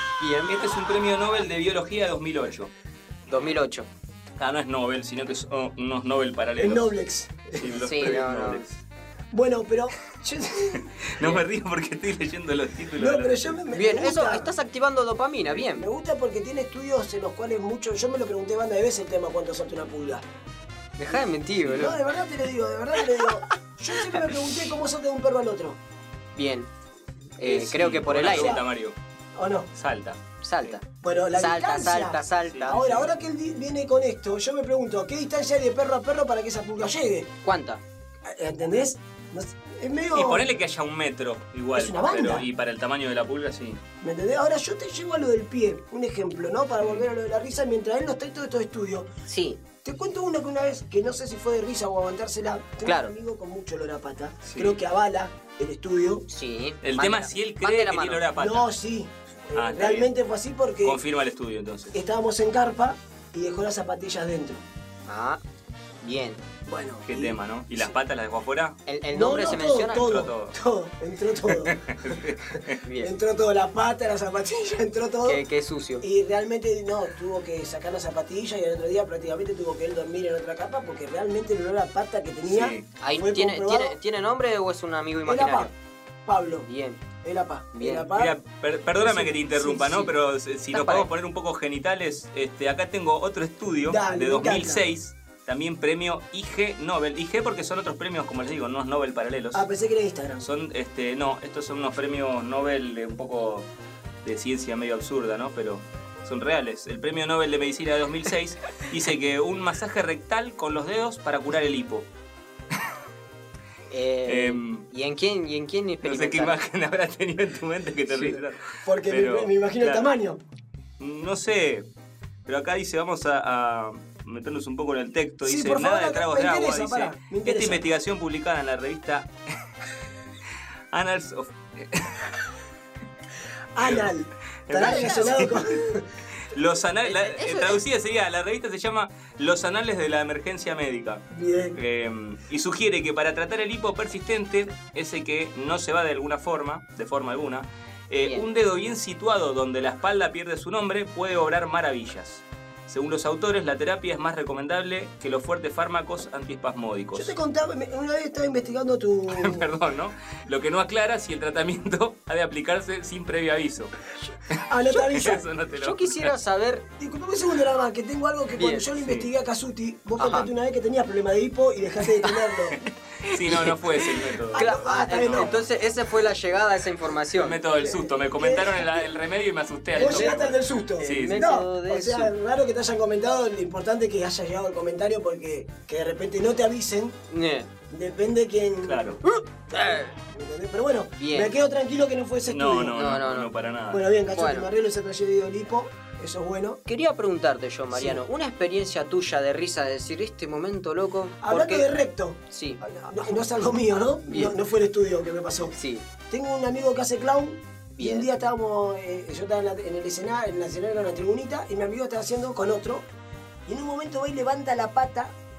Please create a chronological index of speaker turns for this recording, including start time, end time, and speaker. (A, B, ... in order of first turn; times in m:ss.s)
0:00.2-0:00.7 A
0:00.4-0:02.7 B
0:03.3-0:03.9 A
0:04.4-0:07.0 B
0:06.6-0:08.5 C
0:07.5-0:08.8 B
0:07.8-0:08.6 A
0:09.3-0:10.9 C
0:10.7-0:13.6 B
0:13.0-0:14.5 C
0:13.7-0:15.8 A
0:15.7-0:20.2 C
0:21.0-0:22.0 A
0:21.1-0:25.8 C
0:24.0-0:24.3 A
0:26.4-0:26.7 A
0:27.4-0:28.6 A
0:27.4-0:29.0 B
0:28.1-0:28.6 C
0:29.3-0:29.7 C
0:29.7-0:30.8 B
0:30.4-0:32.8 A
0:31.0-0:37.3 C
0:32.5-0:33.1 B
0:37.4-0:37.8 A
0:38.2-0:40.5 C
0:40.1-0:43.8 B
0:41.7-0:42.4 C
0:44.0-0:49.1 C
0:46.8-0:47.0 B
0:49.2-0:49.6 A
0:49.8-0:56.3 C
0:52.8-0:53.1 A
0:54.4-0:54.8 B
0:56.3-0:58.2 A
0:56.8-0:58.7 B
0:58.4-1:01.0 C
0:59.5-1:00.1 B
1:00.8-1:02.0 B
1:01.9-1:04.6 C
1:05.0-1:05.4 A
1:06.0-1:06.4 A
1:06.6-1:07.9 C
1:07.0-1:08.8 B
1:08.9-1:10.1 A
1:09.1-1:15.4 C
1:09.5-1:10.6 B
1:11.5-1:12.8 B
1:12.8-1:13.1 A
1:15.2-1:16.0 A
1:16.0-1:24.0 C
1:22.4-1:22.8 B
1:23.0-1:25.7 A
1:25.2-1:25.7 C
1:26.2-1:26.7 C
1:26.6-1:27.0 A
1:27.2-1:28.4 C
1:27.7-1:28.0 A
1:28.1-1:39.7 B
1:29.0-1:30.1 C
1:30.7-1:31.1 A
1:33.8-1:34.9 C
1:39.5-1:40.4 C
1:40.4-1:43.7 B
1:44.2-1:52.1 B
1:53.9-1:56.6 A
1:54.2-1:54.8 B
1:56.0-2:00.1 B
1:58.8-2:00.4 C
2:01.0-2:01.9 B
2:02.4-2:09.3 B
2:05.4-2:07.8 C
2:10.9-2:12.3 B
2:13.7-2:16.1 C
2:13.8-2:14.1 B
2:14.7-2:15.7 B
2:14.8-2:15.4 A
2:16.5-2:21.2 B
2:17.0-2:17.8 A
2:21.3-2:21.8 C
2:21.7-2:37.3 B
2:37.1-2:39.7 C
2:39.3-2:43.9 B
2:44.5-2:45.4 C
2:44.5-2:46.3 B
2:45.8-2:46.8 A
2:47.0-2:52.8 C
2:48.6-2:48.9 A
2:49.0-2:49.3 B
2:50.2-2:50.5 A
2:53.2-2:55.6 B
2:53.2-2:57.6 A
2:54.5-2:55.6 C
2:57.3-3:01.5 B
2:57.8-2:59.1 C
2:59.9-3:07.2 C
3:00.0-3:02.3 A
3:07.3-3:07.7 A
3:07.9-3:09.2 C
3:08.8-3:09.2 B
3:09.4-3:10.2 A
3:09.7-3:13.0 C
3:11.1-3:11.5 A
3:12.4-3:14.0 B
3:12.9-3:13.5 A
3:13.9-3:16.8 C
3:14.3-3:14.7 A
3:16.8-3:22.0 A
3:17.9-3:18.2 C
3:21.4-3:25.8 C
3:22.5-3:22.8 A
3:24.3-3:24.5 A
3:25.7-3:26.0 A
3:26.3-3:33.0 C
3:28.0-3:28.3 A
3:33.6-3:35.3 C